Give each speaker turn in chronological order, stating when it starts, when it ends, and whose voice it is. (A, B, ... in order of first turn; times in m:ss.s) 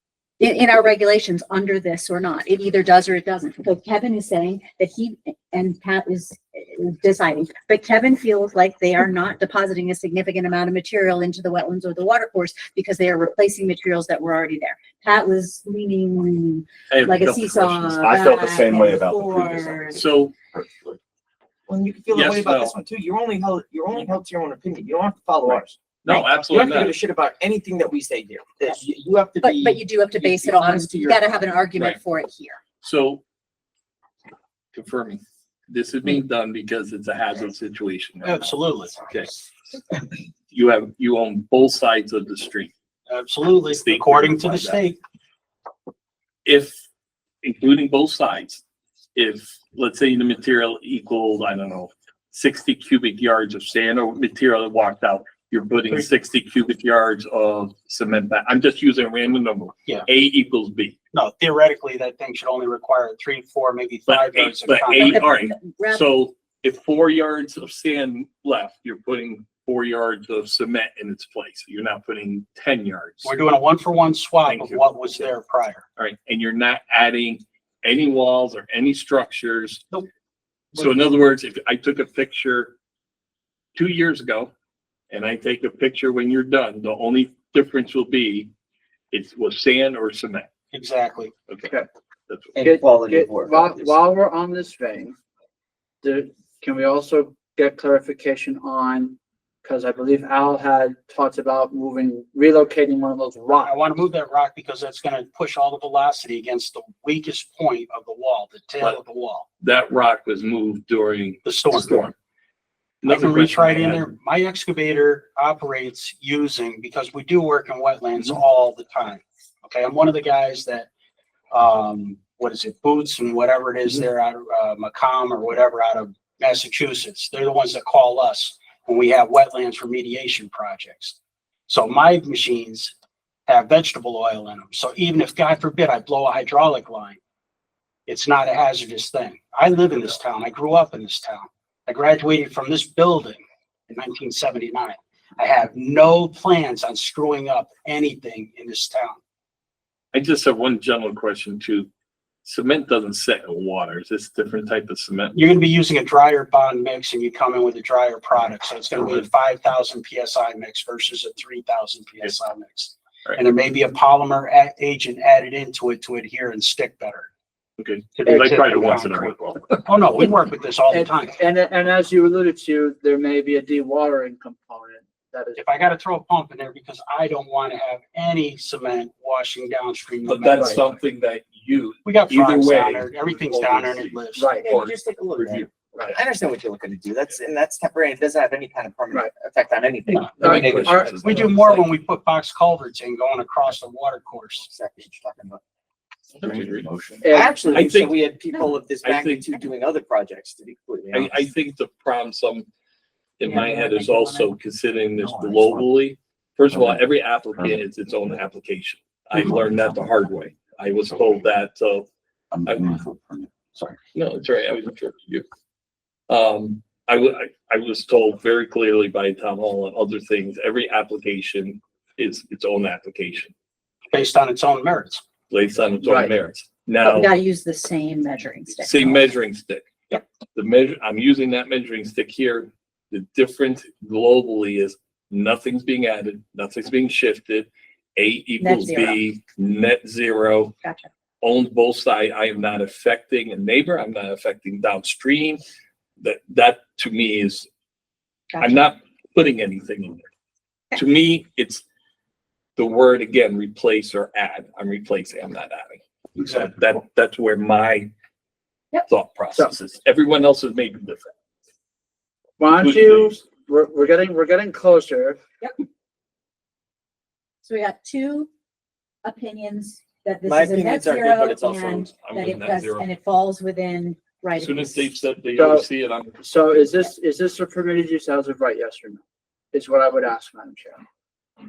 0:00.4-0:20.0 A
0:16.9-0:18.1 B
0:18.0-0:20.0 C
0:19.9-0:20.3 B
0:21.7-0:31.4 D
0:22.1-0:22.8 B
0:25.5-0:27.0 B
0:29.4-0:32.6 A
0:32.8-0:33.2 B
0:34.7-0:39.3 B
0:38.2-0:38.9 E
0:40.5-0:42.7 B
0:43.1-0:45.0 E
0:43.7-0:44.8 B
0:46.4-0:46.8 B
0:47.4-0:48.6 B
0:49.1-1:00.9 B
1:01.1-1:05.2 E
1:04.1-1:13.3 B
1:05.0-1:06.0 A
1:13.2-1:15.8 E
1:14.4-1:15.3 B
1:16.0-1:19.9 B
1:20.7-1:22.7 B
1:23.7-1:24.5 B
1:25.1-1:28.5 B
1:29.1-1:30.5 B
1:30.7-1:31.3 E
1:31.5-1:31.7 B
1:32.3-1:32.6 B
1:32.5-1:34.0 D
1:32.6-1:35.1 F
1:36.0-1:43.8 F
1:43.6-1:49.4 E
1:49.6-1:52.1 B
1:51.4-1:52.1 E
1:53.0-1:54.1 B
1:53.0-2:00.9 E
2:01.5-2:11.2 E
2:11.7-2:12.9 E
2:13.5-2:17.2 E
2:18.1-2:29.2 E
2:30.1-2:31.9 B
2:32.4-2:35.4 B
2:35.3-2:47.3 E
2:47.8-2:49.9 B
2:48.2-2:51.4 E
2:50.9-2:55.6 F
2:55.6-3:01.0 E
3:00.2-3:05.7 B
3:00.5-3:00.8 F
3:02.0-3:04.5 E
3:04.4-3:04.7 F
3:04.5-3:11.5 D
3:05.9-3:06.2 F
3:10.4-3:11.2 F
3:10.4-3:11.9 B
3:11.2-3:14.7 E
3:14.6-3:15.6 D
3:16.3-3:21.5 D
3:16.4-3:16.8 B
3:16.4-3:16.9 C
3:17.2-3:17.9 F
3:17.7-3:18.1 B
3:19.0-3:19.6 B
3:21.1-3:22.7 B
3:23.4-3:32.1 B
3:23.4-3:24.5 A
3:25.2-3:25.9 C
3:26.7-3:27.0 C
3:27.6-3:27.8 C
3:29.4-3:30.1 C
3:32.5-3:34.0 C
3:32.6-3:33.0 B
3:34.1-3:35.4 B
3:36.3-3:43.5 B
3:44.1-3:45.2 E
3:45.5-3:47.3 B
3:46.0-3:46.3 F
3:47.0-3:49.2 A
3:48.8-4:00.7 B
3:58.6-3:59.2 A
4:00.8-4:01.1 A
4:01.4-4:05.6 B
4:06.2-4:07.7 B
4:08.5-4:08.8 A
4:08.6-4:10.3 B
4:10.9-4:11.8 B
4:12.8-4:18.1 B
4:16.4-4:16.7 E
4:19.1-4:21.3 B
4:22.6-4:25.4 F
4:22.8-4:23.4 B
4:27.6-4:28.5 A
4:29.2-4:35.1 A
4:30.4-4:32.1 D
4:32.2-4:33.1 B
4:34.6-4:36.9 B
4:35.5-4:35.8 F
4:36.4-4:39.2 F
4:39.7-4:41.0 F